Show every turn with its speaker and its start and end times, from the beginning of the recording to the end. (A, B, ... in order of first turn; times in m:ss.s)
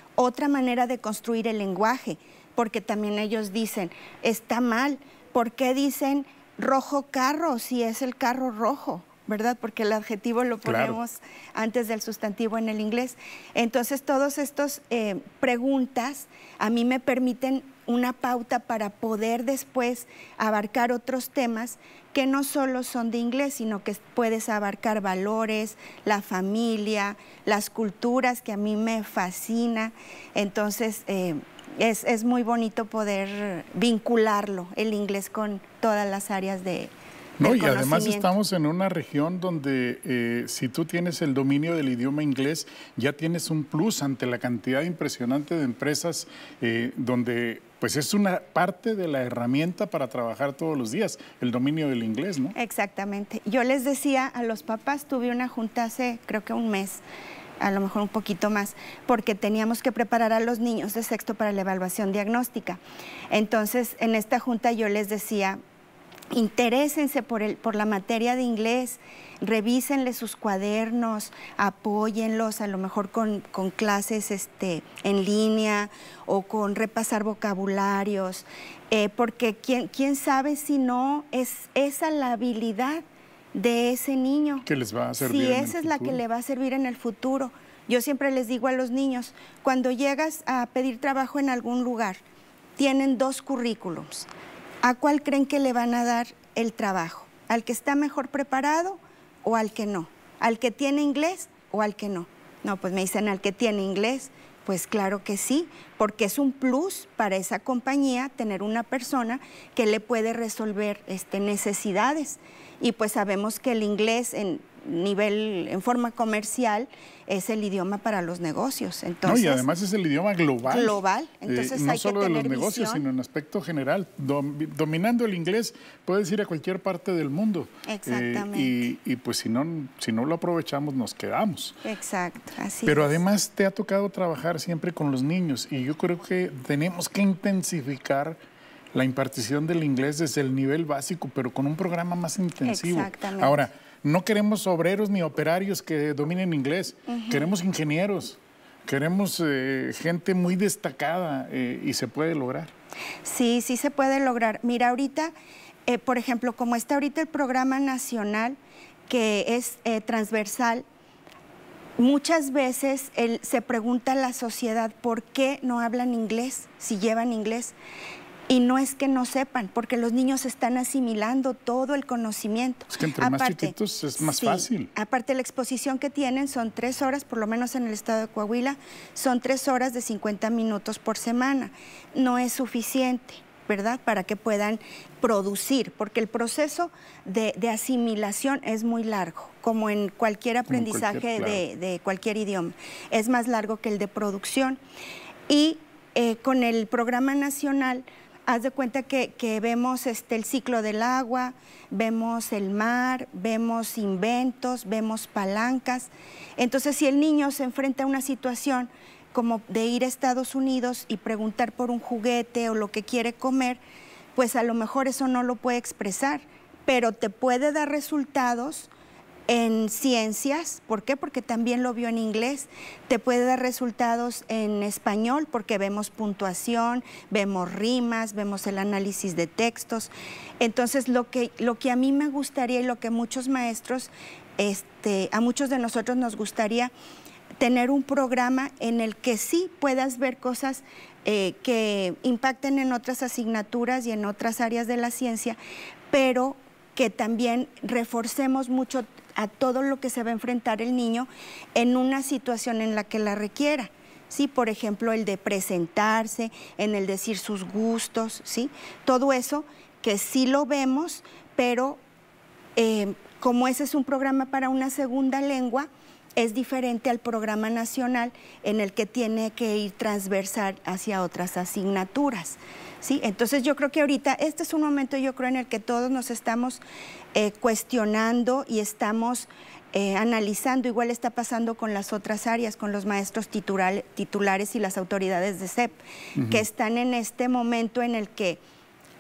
0:00.2-0:38.3 A
0:10.6-0:11.0 B
0:37.4-0:52.6 B
0:52.6-0:57.0 A
0:57.6-1:05.6 A
1:06.3-1:24.7 A
1:24.7-1:26.2 B
1:25.2-1:32.2 A
1:32.8-1:34.3 A
1:34.8-1:59.6 A
1:59.2-2:11.8 B
2:00.7-2:03.0 A
2:07.9-2:08.9 A
2:11.8-2:13.2 A
2:12.8-2:18.4 B
2:18.9-2:32.7 B
2:22.7-2:23.6 A
2:27.1-2:27.5 A
2:33.2-2:35.3 A
2:35.9-2:38.6 A
2:39.1-2:40.8 A
2:42.0-2:47.8 A
2:48.5-3:14.8 A
2:52.9-2:54.9 B
3:10.7-3:11.6 B
3:15.5-3:33.8 A
3:34.4-3:38.9 A
3:39.5-3:56.9 A
3:57.6-4:05.6 A
4:06.1-4:22.0 A
4:22.8-4:36.8 A
4:37.3-4:48.6 A
4:46.4-4:46.6 B